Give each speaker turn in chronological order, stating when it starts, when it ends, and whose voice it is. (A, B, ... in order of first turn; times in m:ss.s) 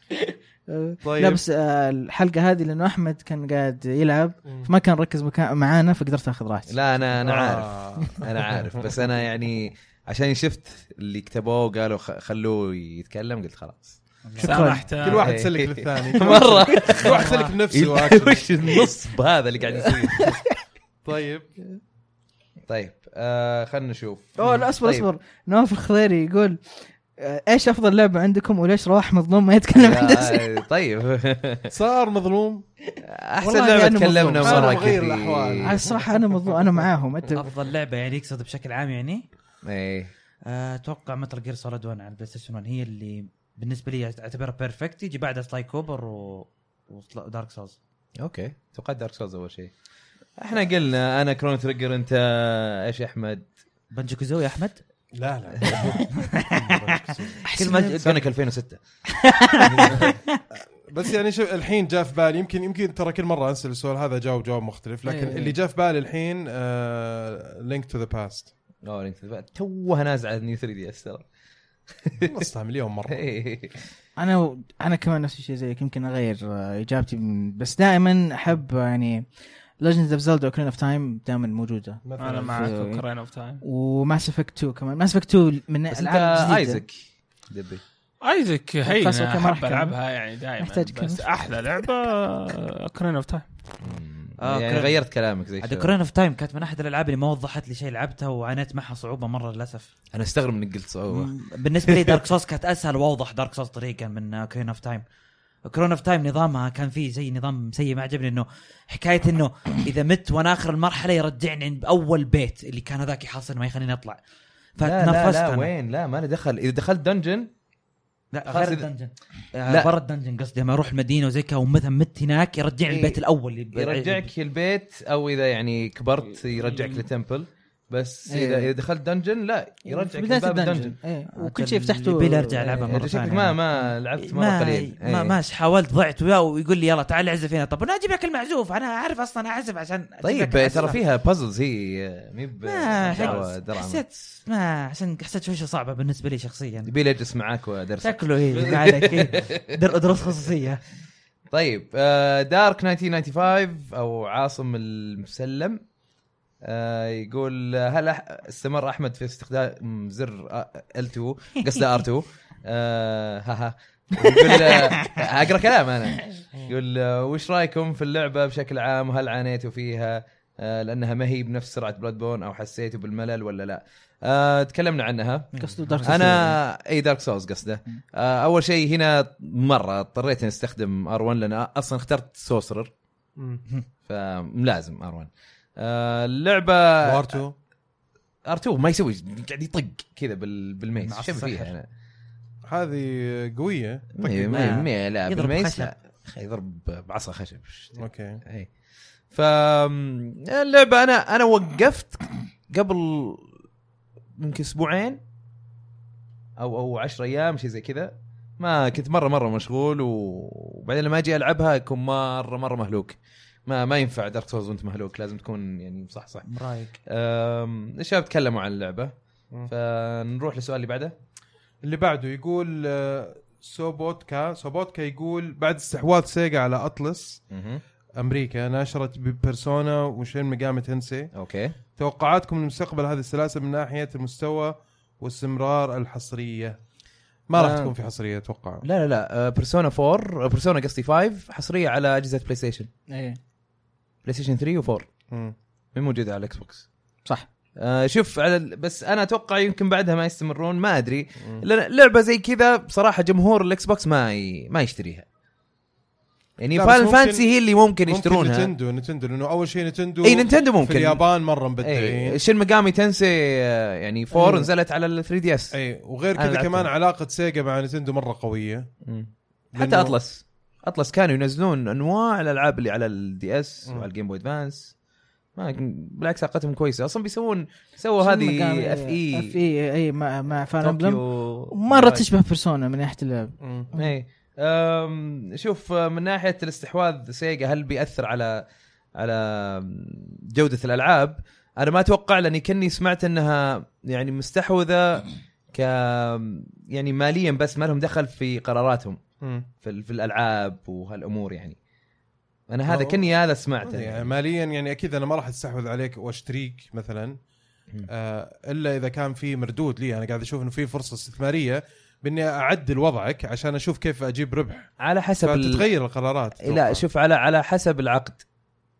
0:00.7-0:06.8 A
0:01.0-0:01.4 B
0:06.7-0:14.0 C
0:07.2-0:09.0 B
0:14.2-0:14.7 D
0:14.4-0:15.3 E
0:14.4-0:14.8 A
0:15.0-0:18.8 B
0:15.0-0:20.4 C
0:16.9-0:17.5 D
0:19.8-0:20.4 A
0:21.0-0:21.5 B
0:22.7-0:25.1 C
0:24.4-0:30.6 A
0:29.7-0:31.7 C
0:31.7-0:32.6 B
0:33.0-0:35.8 C
0:33.4-0:34.9 A
0:34.4-0:36.8 B
0:35.6-0:37.5 A
0:37.4-0:39.2 D
0:39.6-0:40.1 C
0:40.4-0:47.8 D
0:48.2-0:49.7 C
0:50.4-0:53.4 C
0:53.9-0:54.8 D
0:55.2-0:57.4 B
0:55.6-0:56.8 D
0:57.4-0:58.2 D
0:57.4-0:58.0 A
0:57.7-0:58.8 C
0:59.6-1:00.1 C
0:59.9-1:00.1 B
1:00.8-1:08.5 B
1:05.0-1:05.6 A
1:08.8-1:11.2 C
1:12.0-1:12.4 C
1:12.2-1:13.2 B
1:13.1-1:13.8 C
1:14.2-1:19.3 A
1:19.8-1:23.0 A
1:22.0-1:22.7 B
1:22.2-1:23.6 E
1:23.6-1:26.8 A
1:25.9-1:27.8 C
1:28.2-1:33.4 E
1:28.8-1:30.0 A
1:30.6-1:31.3 A
1:33.8-1:35.9 C
1:34.4-1:35.0 D
1:35.6-1:39.9 D
1:40.1-1:41.3 C
1:41.1-1:45.0 D
1:41.9-1:42.1 C
1:45.6-1:54.2 D
1:54.8-1:55.7 D
1:54.8-1:57.5 C
1:58.3-2:04.3 D
1:58.4-1:58.9 C
2:02.9-2:03.2 C
2:03.7-2:11.0 C
2:06.4-2:07.0 E
2:08.3-2:08.7 A
2:09.8-2:13.0 A
2:11.4-2:13.6 D
2:12.8-2:15.4 C
2:14.2-2:21.0 D
2:20.2-2:24.0 C
2:22.6-2:26.9 D
2:26.8-2:29.7 C
2:28.0-2:30.8 D
2:28.6-2:29.2 A
2:31.5-2:35.8 C
2:36.6-3:02.9 C
2:55.5-2:56.2 D
2:55.6-2:56.6 A
3:03.4-3:03.6 B
3:04.0-3:07.4 C
3:07.0-3:07.5 B
3:08.4-3:11.8 C
3:11.0-3:11.7 D
3:12.6-3:14.7 B
3:14.1-3:18.7 C
3:14.5-3:15.9 D
3:18.0-3:18.4 B
3:19.3-3:23.5 C
3:24.4-3:25.2 C
3:26.6-3:36.5 C
3:36.4-3:37.0 D
3:37.0-3:39.1 C
3:39.6-3:41.1 C
3:41.8-3:47.4 B
3:47.5-3:47.8 C
3:48.2-3:51.3 B
3:51.3-3:51.7 C
3:52.0-3:56.8 B
3:57.5-3:58.8 B
3:57.5-3:57.9 C
3:58.8-4:02.9 C
4:03.1-4:03.4 A
4:04.2-4:05.1 C
4:05.9-4:06.9 C
4:07.8-4:15.2 C
4:16.6-4:18.7 C
4:16.7-4:17.5 B
4:18.0-4:22.4 B
4:20.2-4:21.2 C
4:21.8-4:25.7 C
4:24.3-4:24.7 A
4:25.7-4:28.9 B
4:26.3-4:26.9 C
4:29.0-4:34.9 C
4:29.7-4:30.2 B
4:35.6-4:39.5 C
4:38.2-4:41.2 A
4:40.8-4:42.3 C
4:41.7-4:44.1 A
4:43.6-4:43.9 B
4:43.9-4:48.6 C
4:49.2-4:59.2 C
4:59.8-5:01.8 C
5:02.7-5:04.3 C
5:02.9-5:03.2 B
5:03.8-5:07.4 B
5:08.1-5:14.9 B
5:15.0-5:15.9 C
5:15.4-5:17.0 B
5:16.6-5:18.4 C